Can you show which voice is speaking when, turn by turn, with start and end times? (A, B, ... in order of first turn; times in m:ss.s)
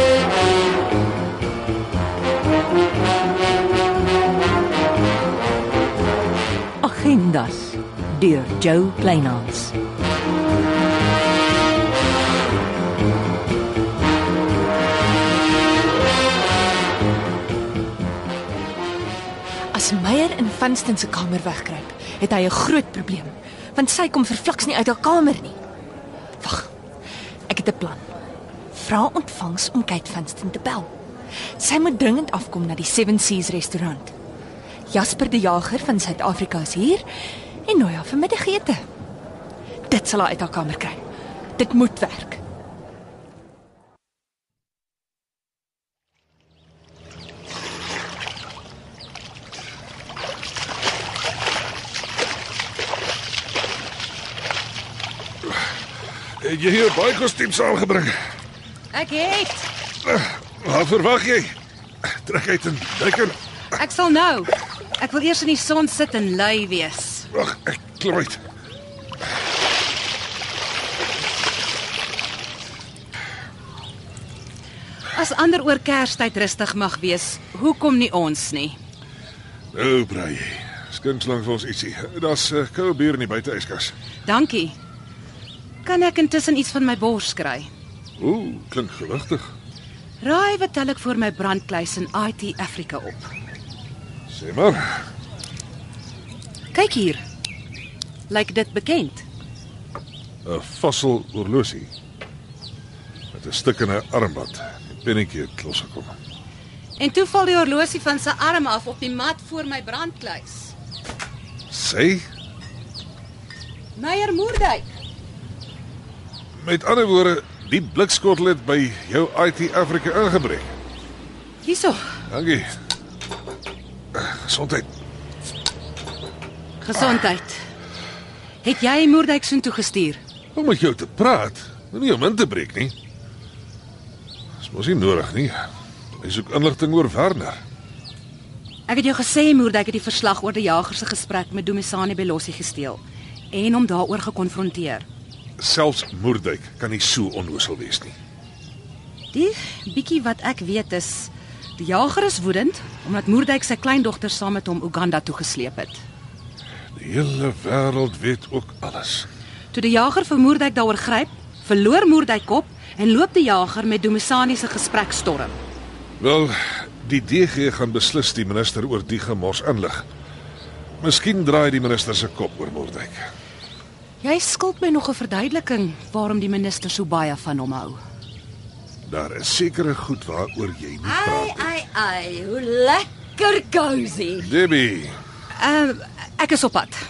0:06.8-0:09.7 A
0:19.7-0:25.6 B
0:26.4-0:26.7 B
0:27.5-0:28.0 B
0:28.7-0:30.9 B
0:31.6-0:34.1 B
0:34.9-0:37.0 B
0:37.7-0:38.8 B
0:39.9-0:41.0 B
0:41.6-0:42.4 B
0:56.4-0:58.1 C
0:58.9-0:59.7 D
1:00.0-1:01.5 C
1:02.1-1:03.4 C
1:03.8-1:07.3 D
1:07.3-1:08.4 C
1:15.1-1:18.8 D
1:19.7-1:23.9 C
1:24.3-1:24.8 D
1:25.8-1:27.7 D
1:28.2-1:29.5 C
1:30.2-1:33.3 D
1:34.3-1:34.8 C
1:36.7-1:37.2 D
1:38.3-1:39.2 D
1:40.4-1:41.9 C
1:43.3-1:46.1 C
1:47.0-1:50.7 D
1:51.7-1:52.2 C
1:54.0-1:55.0 D
1:56.6-2:00.7 C
2:01.6-2:02.0 D
2:02.3-2:02.7 C
2:04.1-2:04.9 C
2:06.8-2:07.6 D
2:08.6-2:10.2 D
2:10.6-2:12.9 C
2:14.6-2:15.6 C
2:16.2-2:17.6 C
2:18.9-2:25.0 D
2:25.6-2:28.1 C
2:29.3-2:36.0 D
2:37.0-2:39.3 C
2:39.7-2:45.6 D
2:46.2-2:50.0 C
2:51.0-2:53.2 C
2:54.2-2:58.0 D
2:59.1-3:01.7 C
3:01.0-3:04.5 E
3:04.4-3:05.1 C
3:05.6-3:07.0 D